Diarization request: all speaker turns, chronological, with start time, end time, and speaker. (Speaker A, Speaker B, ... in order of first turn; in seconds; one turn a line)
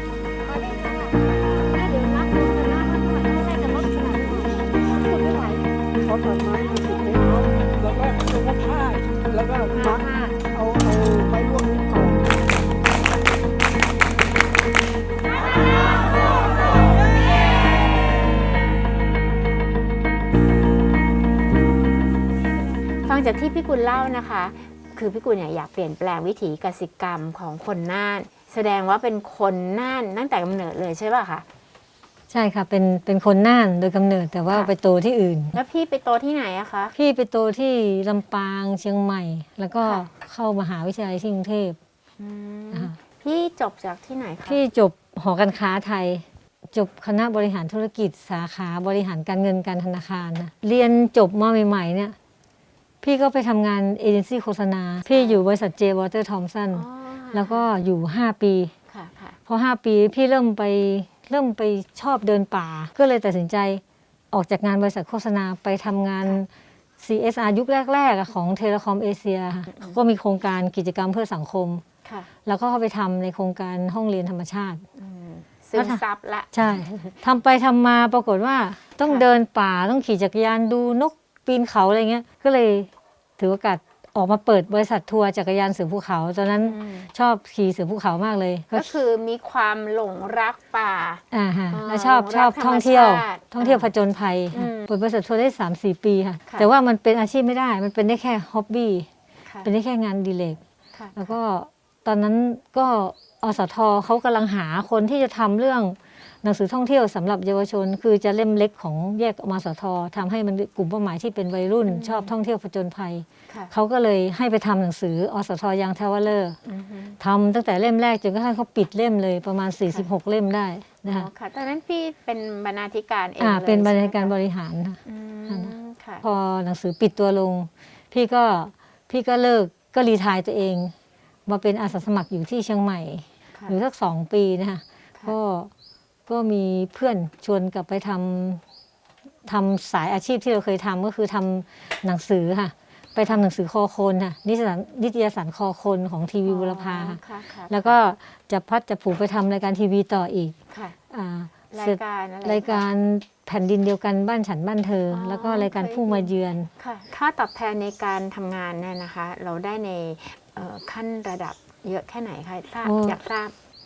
Speaker A: 0.5-5.7
Speaker B: 5.9-12.4
Speaker A: 9.7-10.4
Speaker C: 23.0-31.4
Speaker A: 32.3-35.6
Speaker C: 35.5-36.9
Speaker A: 36.9-41.8
Speaker C: 39.8-40.0
Speaker C: 42.2-44.6
Speaker A: 44.5-52.1
Speaker A: 53.0-58.7
Speaker C: 55.1-55.4
Speaker C: 56.7-57.7
Speaker C: 58.9-59.4
Speaker A: 59.5-71.8
Speaker A: 72.4-74.8
Speaker C: 75.0-76.8
Speaker A: 75.8-76.0
Speaker A: 76.5-88.9
Speaker C: 86.6-87.1
Speaker C: 88.7-93.9
Speaker A: 91.3-99.1
Speaker C: 94.5-94.9
Speaker A: 99.6-100.6
Speaker C: 100.9-101.3
Speaker A: 101.2-116.6
Speaker C: 111.9-112.3
Speaker C: 116.6-117.2
Speaker A: 117.2-121.3
Speaker C: 121.0-124.3
Speaker A: 123.4-130.9
Speaker C: 125.0-126.2
Speaker A: 131.5-135.7
Speaker A: 136.3-138.6
Speaker A: 139.4-150.6
Speaker C: 146.4-147.9
Speaker C: 150.7-150.9
Speaker A: 151.1-156.7
Speaker C: 151.7-152.8
Speaker C: 155.1-163.5
Speaker A: 162.8-163.2